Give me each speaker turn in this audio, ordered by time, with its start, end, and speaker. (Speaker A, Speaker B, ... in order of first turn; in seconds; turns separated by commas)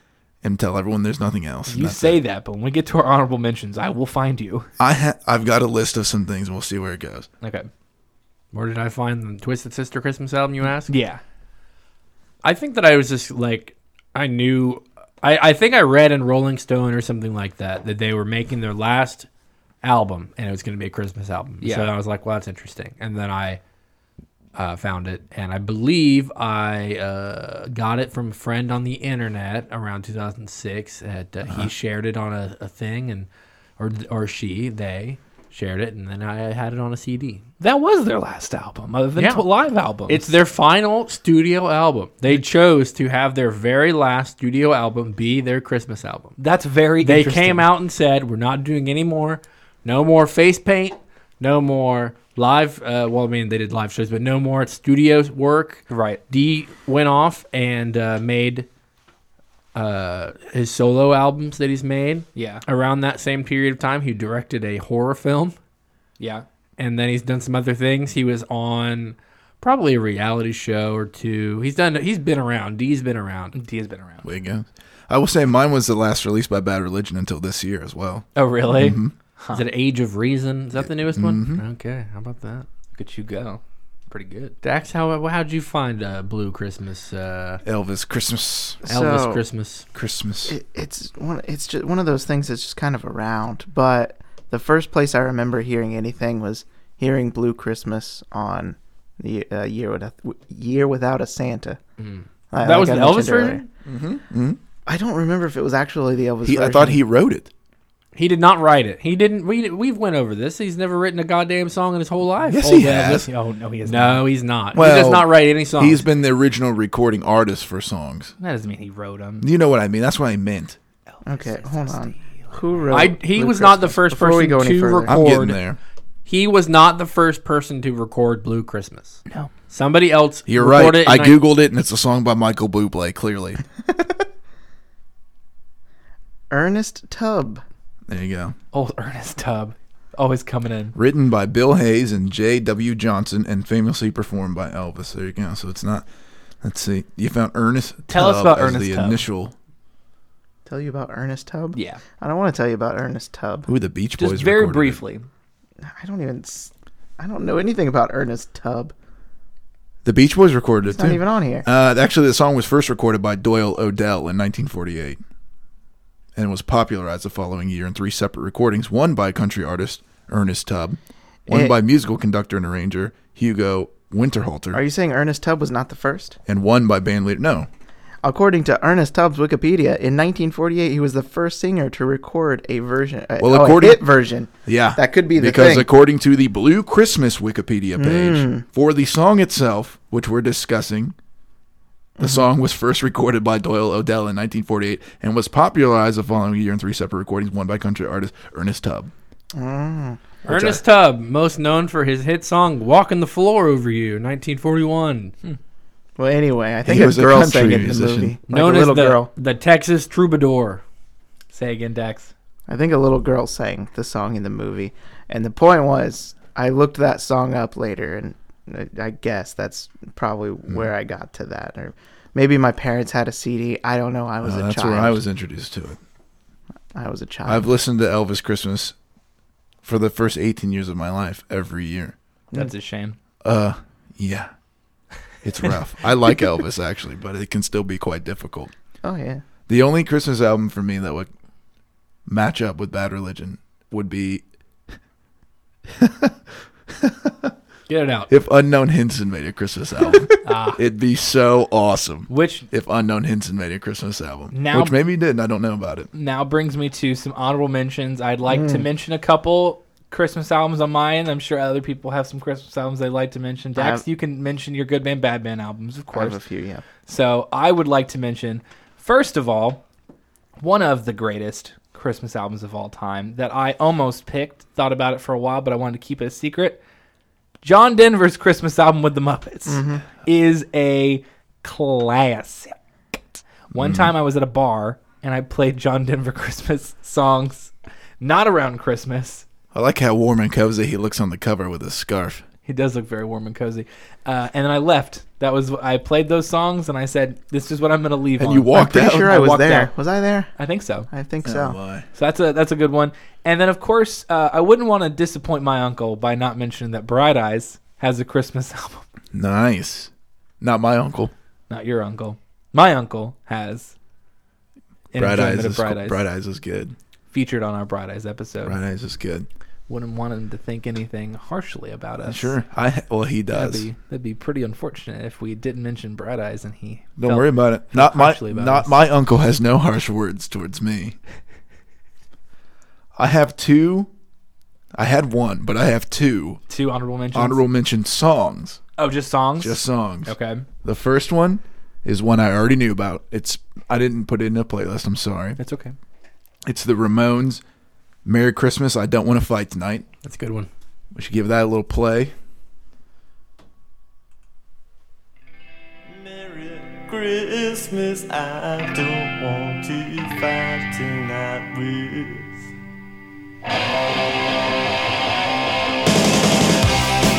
Speaker A: 0.4-2.2, Speaker B: 1.7-4.7, Speaker A: 4.8-7.3, Speaker B: 7.4-7.7, Speaker C: 8.5-10.9, Speaker B: 10.9-11.2, Speaker C: 12.4-19.3, Speaker C: 19.8-23.6, Speaker B: 21.6-21.9, Speaker C: 24.5-37.4, Speaker B: 37.6-40.3, Speaker C: 39.2-39.5, Speaker C: 40.1-46.4, Speaker B: 46.4-47.6, Speaker C: 47.0-58.7, Speaker B: 55.9-56.2, Speaker C: 59.7-65.5, Speaker B: 62.3-62.6, Speaker B: 66.2-66.5, Speaker C: 66.8-73.5, Speaker B: 73.5-74.3, Speaker A: 74.2-79.1, Speaker B: 78.3-79.6, Speaker C: 79.5-82.7, Speaker A: 80.8-81.6, Speaker B: 82.9-84.5, Speaker C: 84.6-87.6, Speaker A: 87.6-88.8, Speaker D: 88.8-89.4, Speaker C: 88.8-89.8, Speaker A: 89.9-90.5, Speaker D: 90.5-101.8, Speaker C: 102.0-103.7, Speaker D: 102.5-103.6, Speaker A: 103.8-104.6, Speaker D: 104.8-107.0, Speaker A: 106.4-107.5, Speaker C: 108.1-113.3, Speaker A: 112.4-113.3, Speaker B: 113.0-114.2, Speaker C: 113.8-116.0, Speaker A: 114.7-118.3, Speaker B: 118.4-119.5, Speaker A: 119.4-120.8, Speaker B: 121.2-122.5, Speaker D: 121.2-125.1, Speaker C: 122.9-125.6, Speaker A: 125.1-125.8, Speaker C: 126.2-131.4, Speaker A: 130.5-133.6, Speaker D: 136.5-137.6, Speaker A: 138.1-138.6, Speaker B: 138.7-140.9, Speaker A: 140.9-146.1, Speaker A: 146.6-149.5, Speaker B: 148.1-149.2, Speaker D: 150.7-153.7, Speaker B: 151.7-152.0, Speaker A: 153.7-155.0, Speaker B: 154.2-155.3, Speaker D: 155.9-158.9, Speaker A: 160.0-165.2, Speaker D: 160.8-161.7, Speaker A: 166.3-174.8, Speaker D: 171.5-171.7, Speaker D: 174.7-176.4, Speaker A: 176.5-177.7, Speaker D: 178.2-185.9, Speaker A: 183.4-184.1, Speaker A: 184.6-191.1, Speaker D: 188.0-188.6, Speaker D: 192.2-192.4, Speaker A: 192.2-199.1, Speaker D: 199.5-200.2, Speaker C: 200.4-205.3, Speaker A: 200.5-200.8, Speaker D: 206.2-209.3, Speaker A: 206.8-208.3, Speaker C: 208.5-210.8, Speaker B: 211.5-212.3, Speaker D: 212.7-225.2, Speaker A: 224.4-226.0, Speaker D: 226.9-227.7, Speaker A: 227.4-228.9, Speaker A: 229.8-232.1, Speaker B: 232.5-233.2, Speaker A: 233.4-234.5, Speaker A: 235.4-238.7, Speaker D: 239.0-239.4, Speaker A: 239.7-241.3, Speaker A: 242.2-244.4, Speaker A: 245.9-246.4, Speaker A: 246.9-247.5, Speaker C: 247.9-248.3, Speaker A: 248.3-256.1, Speaker B: 250.4-250.8, Speaker B: 252.3-252.7, Speaker B: 254.5-254.9, Speaker B: 256.1-266.4, Speaker D: 258.5-258.9, Speaker D: 263.7-264.0, Speaker D: 266.1-266.8, Speaker B: 267.1-269.8, Speaker B: 270.6-276.8, Speaker B: 277.6-289.4, Speaker D: 279.7-280.1, Speaker A: 283.7-284.1, Speaker A: 289.7-292.4, Speaker B: 292.6-299.9, Speaker A: 298.4-299.4, Speaker D: 298.8-300.5, Speaker B: 300.6-301.1, Speaker D: 301.1-301.8, Speaker A: 301.4-302.1, Speaker B: 302.1-309.1, Speaker A: 309.3-311.3, Speaker B: 311.7-313.9, Speaker B: 315.1-316.2, Speaker A: 315.1-316.9, Speaker B: 317.3-318.8, Speaker A: 318.6-319.5, Speaker B: 319.9-322.6, Speaker A: 322.2-323.9, Speaker B: 323.5-329.0, Speaker A: 327.2-331.2, Speaker A: 333.1-334.1, Speaker A: 334.9-336.6, Speaker B: 336.7-337.6, Speaker A: 337.3-338.8, Speaker B: 339.0-340.6, Speaker A: 339.6-345.6, Speaker B: 345.6-345.9, Speaker A: 346.6-347.6, Speaker A: 348.2-350.1, Speaker C: 350.2-350.7, Speaker A: 351.1-352.3, Speaker E: 356.1-362.6